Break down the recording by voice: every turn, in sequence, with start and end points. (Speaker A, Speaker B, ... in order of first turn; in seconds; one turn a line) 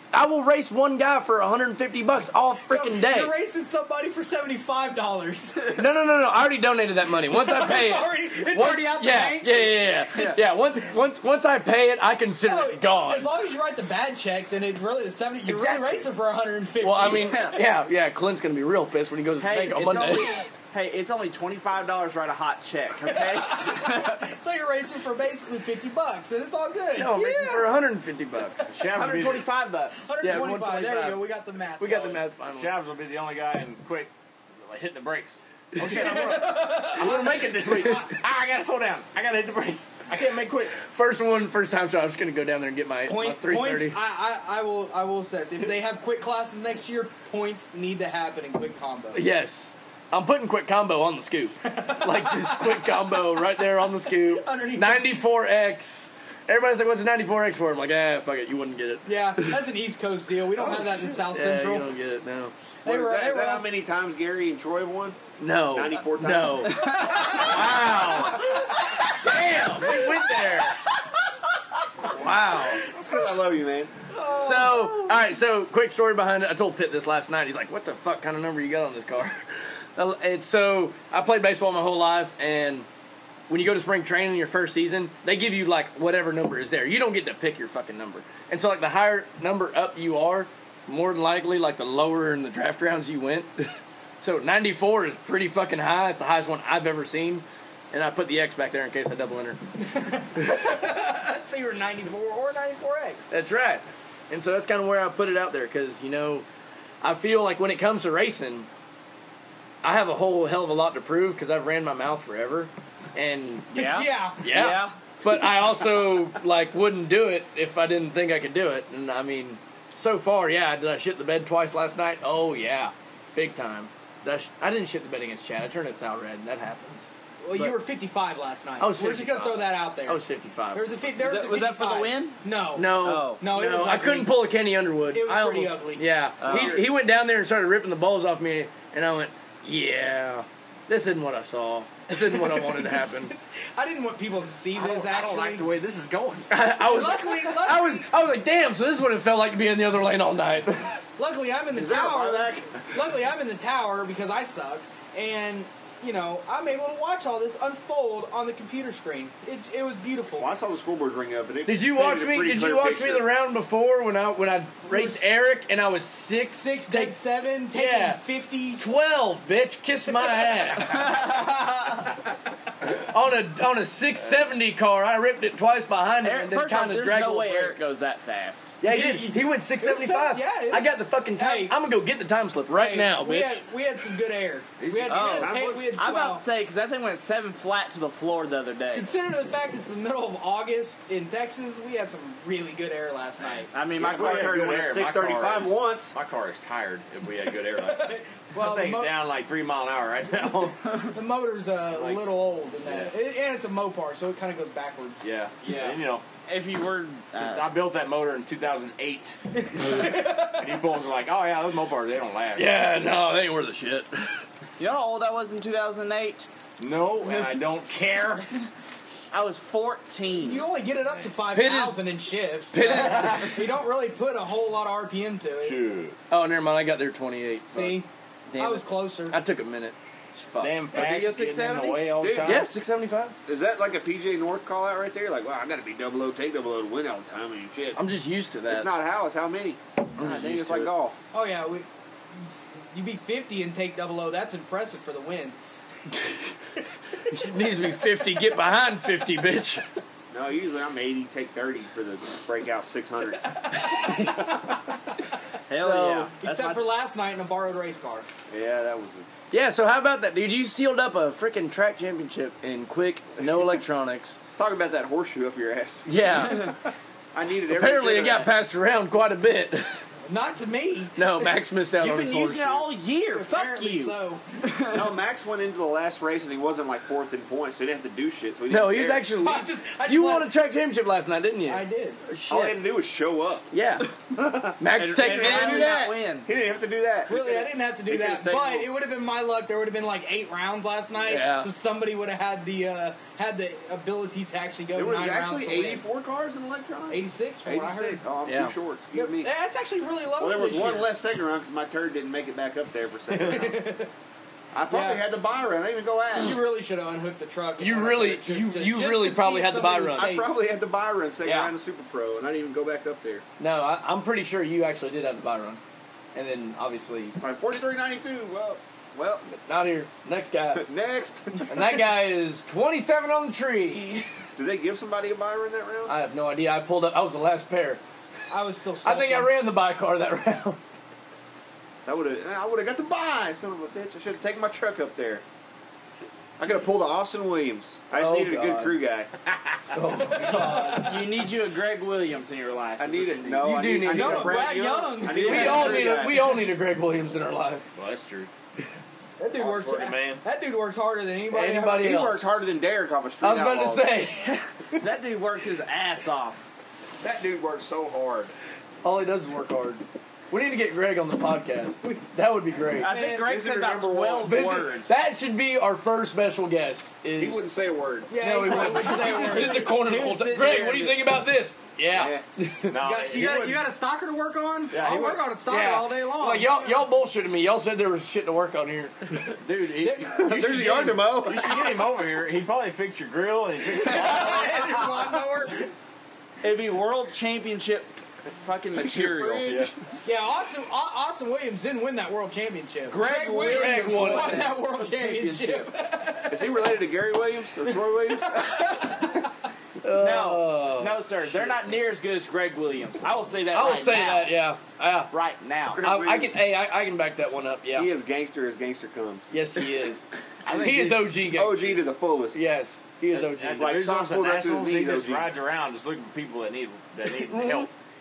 Speaker A: 0.1-3.4
Speaker B: 2.7-5.9
Speaker A: 5.7-13.3
Speaker B: 7.3-10.4
Speaker B: 12.4-17.6
Speaker A: 15.5-16.1
Speaker A: 16.8-20.4
Speaker C: 17.1-17.6
Speaker C: 19.4-24.3
Speaker B: 23.0-27.8
Speaker A: 26.9-28.7
Speaker D: 28.7-29.5
Speaker C: 28.9-30.0
Speaker B: 30.0-32.2
Speaker A: 30.2-31.2
Speaker A: 31.8-32.7
Speaker D: 32.4-40.7
Speaker A: 35.8-36.3
Speaker B: 35.8-38.1
Speaker A: 36.8-38.1
Speaker A: 40.8-44.0
Speaker B: 43.1-49.2
Speaker A: 49.1-59.6
Speaker B: 51.6-53.1
Speaker B: 54.0-55.1
Speaker B: 59.1-61.9
Speaker A: 61.0-62.5
Speaker B: 62.9-63.7
Speaker E: 62.9-65.2
Speaker A: 65.4-70.8
Speaker E: 65.7-66.9
Speaker C: 66.8-67.4
Speaker B: 66.8-68.7
Speaker B: 69.8-70.7
Speaker A: 72.0-72.8
Speaker E: 72.8-73.9
Speaker B: 74.1-75.2
Speaker A: 74.3-82.9
Speaker A: 83.5-99.6
Speaker B: 99.8-103.3
Speaker A: 103.3-106.5
Speaker A: 107.0-108.7
Speaker A: 109.8-113.8
Speaker C: 113.7-115.0
Speaker B: 113.8-114.6
Speaker A: 114.4-127.8
Speaker B: 127.4-130.2
Speaker A: 128.8-130.9
Speaker B: 130.7-134.4
Speaker C: 131.2-132.4
Speaker A: 132.8-143.3
Speaker C: 133.0-133.4
Speaker B: 135.1-136.8
Speaker C: 136.4-136.8
Speaker B: 142.2-145.7
Speaker D: 144.7-146.5
Speaker A: 146.5-151.0
Speaker B: 146.8-148.0
Speaker B: 151.2-160.5
Speaker E: 151.7-152.9
Speaker E: 160.4-163.3
Speaker A: 161.7-167.2
Speaker B: 164.9-165.3
Speaker B: 166.6-168.8
Speaker A: 167.7-168.2
Speaker A: 168.8-171.1
Speaker C: 170.9-172.0
Speaker A: 172.8-177.8
Speaker C: 176.2-178.8
Speaker A: 178.8-183.6
Speaker B: 178.8-181.8
Speaker B: 182.7-186.4
Speaker D: 184.8-185.6
Speaker C: 185.1-189.1
Speaker E: 185.2-185.9
Speaker B: 188.9-193.7
Speaker C: 193.5-194.6
Speaker E: 194.0-196.1
Speaker D: 194.0-201.0
Speaker B: 197.7-199.1
Speaker B: 201.0-205.3
Speaker D: 201.9-202.2
Speaker D: 202.8-203.1
Speaker D: 205.2-206.2
Speaker A: 205.6-205.9
Speaker C: 206.5-207.7
Speaker D: 207.3-212.9
Speaker B: 209.6-210.7
Speaker A: 212.6-214.3
Speaker C: 214.8-216.5
Speaker D: 216.8-218.5
Speaker C: 219.3-220.7
Speaker B: 220.4-225.8
Speaker A: 221.5-222.0
Speaker A: 222.7-223.6
Speaker D: 225.6-226.2
Speaker A: 226.3-230.7
Speaker B: 227.7-229.4
Speaker D: 230.6-232.7
Speaker C: 230.9-232.1
Speaker E: 232.2-232.6
Speaker A: 232.4-233.3
Speaker E: 233.5-238.0
Speaker A: 238.0-238.9
Speaker E: 238.7-241.2
Speaker A: 240.2-240.9
Speaker B: 241.3-241.9
Speaker B: 242.9-245.6
Speaker A: 246.1-246.5
Speaker A: 247.2-249.8
Speaker E: 250.3-254.5
Speaker B: 253.8-254.5
Speaker A: 253.9-254.2
Speaker A: 255.7-256.3
Speaker C: 255.7-256.9
Speaker B: 256.4-258.3
Speaker E: 258.5-259.3
Speaker A: 259.5-264.4
Speaker E: 264.6-266.1
Speaker A: 266.1-266.7
Speaker C: 266.4-266.7
Speaker E: 267.3-268.5
Speaker A: 267.7-270.0
Speaker B: 270.3-271.6
Speaker A: 271.2-272.9
Speaker C: 272.0-275.1
Speaker B: 273.3-274.4
Speaker E: 274.9-279.3
Speaker A: 278.7-282.8
Speaker B: 279.3-280.5
Speaker B: 281.7-282.2
Speaker E: 282.5-283.7
Speaker A: 283.7-284.1
Speaker E: 284.3-288.9
Speaker A: 284.8-286.0
Speaker C: 285.0-286.5
Speaker B: 285.7-286.0
Speaker B: 287.3-296.0
Speaker A: 291.2-291.7
Speaker E: 294.9-299.5
Speaker B: 297.1-298.2
Speaker A: 298.4-298.8
Speaker B: 299.1-301.1
Speaker E: 300.4-303.9
Speaker B: 303.4-304.1
Speaker E: 304.7-306.6
Speaker B: 304.9-305.3
Speaker B: 306.4-310.5
Speaker A: 307.8-310.4
Speaker E: 310.1-313.4
Speaker A: 311.4-311.7
Speaker A: 313.6-315.8
Speaker A: 316.4-317.4
Speaker E: 317.4-319.5
Speaker A: 319.5-320.9
Speaker E: 320.8-322.0
Speaker A: 321.7-324.3
Speaker E: 324.6-326.1
Speaker A: 326.1-328.0
Speaker B: 328.5-329.5
Speaker A: 329.0-330.8
Speaker E: 332.1-335.4
Speaker E: 336.6-339.9
Speaker A: 338.1-338.9
Speaker A: 339.9-341.2
Speaker B: 340.5-341.1
Speaker C: 340.9-343.8
Speaker E: 343.0-346.6
Speaker A: 343.6-344.7
Speaker B: 344.1-346.2
Speaker A: 345.3-347.9
Speaker D: 347.9-348.5
Speaker B: 349.4-352.1
Speaker E: 349.6-349.9
Speaker D: 349.8-350.4
Speaker A: 351.5-352.5
Speaker E: 352.0-354.1
Speaker A: 353.4-354.6
Speaker C: 354.9-356.7
Speaker E: 357.2-358.5
Speaker A: 359.0-363.1
Speaker C: 363.0-365.1
Speaker B: 363.0-363.5
Speaker E: 363.4-364.6
Speaker A: 364.4-367.6
Speaker E: 367.4-369.0
Speaker B: 368.3-370.0
Speaker A: 368.4-372.9
Speaker C: 369.1-371.2
Speaker E: 372.1-372.4
Speaker D: 372.9-373.8
Speaker B: 373.0-377.0
Speaker D: 374.9-375.4
Speaker A: 375.7-379.4
Speaker D: 379.5-384.9
Speaker B: 380.0-380.5
Speaker E: 380.3-381.9
Speaker B: 384.0-385.9
Speaker C: 386.6-389.7
Speaker E: 388.9-389.9
Speaker D: 389.6-389.9
Speaker B: 390.2-396.9
Speaker C: 393.1-395.9
Speaker A: 393.6-394.7
Speaker E: 396.5-399.3
Speaker B: 397.9-399.5
Speaker A: 400.0-401.2
Speaker C: 400.1-404.5
Speaker A: 403.7-405.3
Speaker C: 405.3-406.0
Speaker E: 405.9-406.6
Speaker A: 406.0-408.1
Speaker E: 407.9-409.5
Speaker A: 409.5-413.9
Speaker D: 410.6-411.3
Speaker E: 411.4-412.6
Speaker D: 413.3-417.9
Speaker E: 413.8-415.5
Speaker A: 417.6-417.9